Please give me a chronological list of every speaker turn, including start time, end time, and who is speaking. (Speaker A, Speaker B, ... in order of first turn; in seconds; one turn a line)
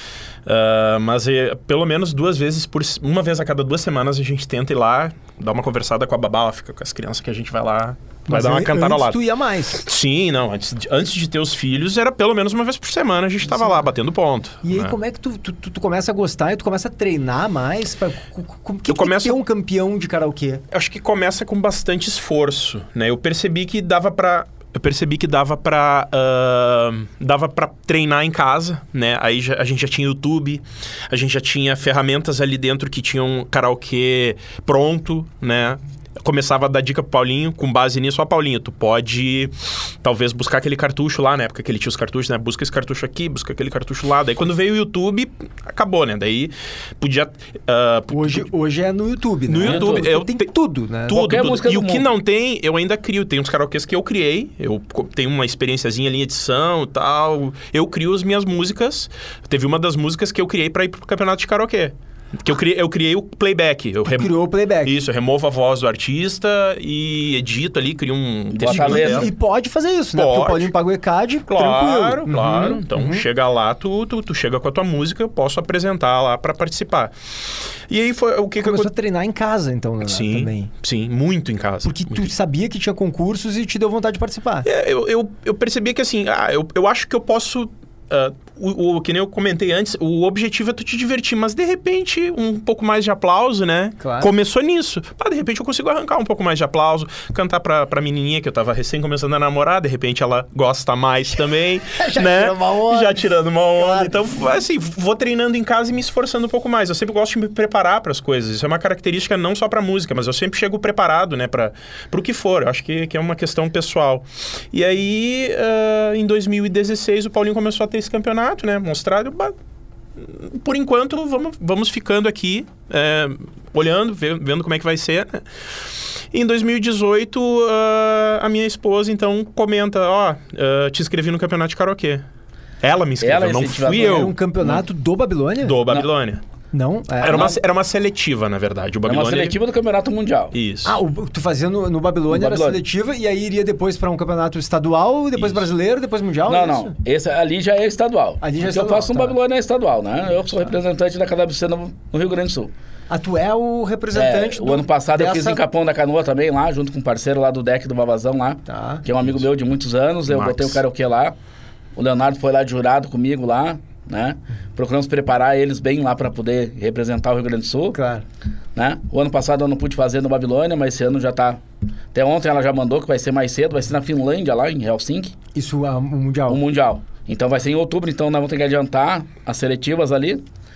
Speaker A: 0.5-9.2
Speaker B: 8.3-9.8
Speaker A: 9.7-14.9
Speaker B: 14.6-20.6
Speaker A: 18.9-19.4
Speaker A: 20.7-48.5
Speaker B: 48.1-51.3
Speaker A: 49.5-50.5
Speaker C: 49.6-50.1
Speaker A: 51.1-69.3
Speaker C: 51.1-52.1
Speaker B: 64.1-65.0
Speaker C: 68.5-69.3
Speaker B: 68.7-73.3
Speaker A: 70.2-70.7
Speaker A: 71.5-78.9
Speaker B: 78.6-80.7
Speaker A: 80.0-82.3
Speaker B: 81.8-84.7
Speaker A: 84.6-119.5
Speaker B: 94.0-94.3
Speaker B: 101.9-104.2
Speaker A: 120.2-125.4
Speaker A: 126.3-132.2
Speaker A: 132.8-134.3
Speaker C: 133.2-134.8
Speaker B: 133.9-135.8
Speaker A: 135.6-136.4
Speaker B: 136.7-137.6
Speaker A: 137.2-139.6
Speaker C: 139.1-140.6
Speaker A: 140.5-141.0
Speaker B: 140.8-146.9
Speaker C: 142.3-142.8
Speaker A: 145.4-145.7
Speaker C: 146.5-152.7
Speaker B: 148.4-149.4
Speaker B: 153.1-155.6
Speaker C: 154.1-161.3
Speaker B: 158.7-159.0
Speaker A: 160.3-160.8
Speaker C: 162.0-168.0
Speaker B: 167.9-168.2
Speaker C: 168.8-171.6
Speaker C: 172.1-175.3
Speaker B: 175.6-176.6
Speaker C: 176.5-180.4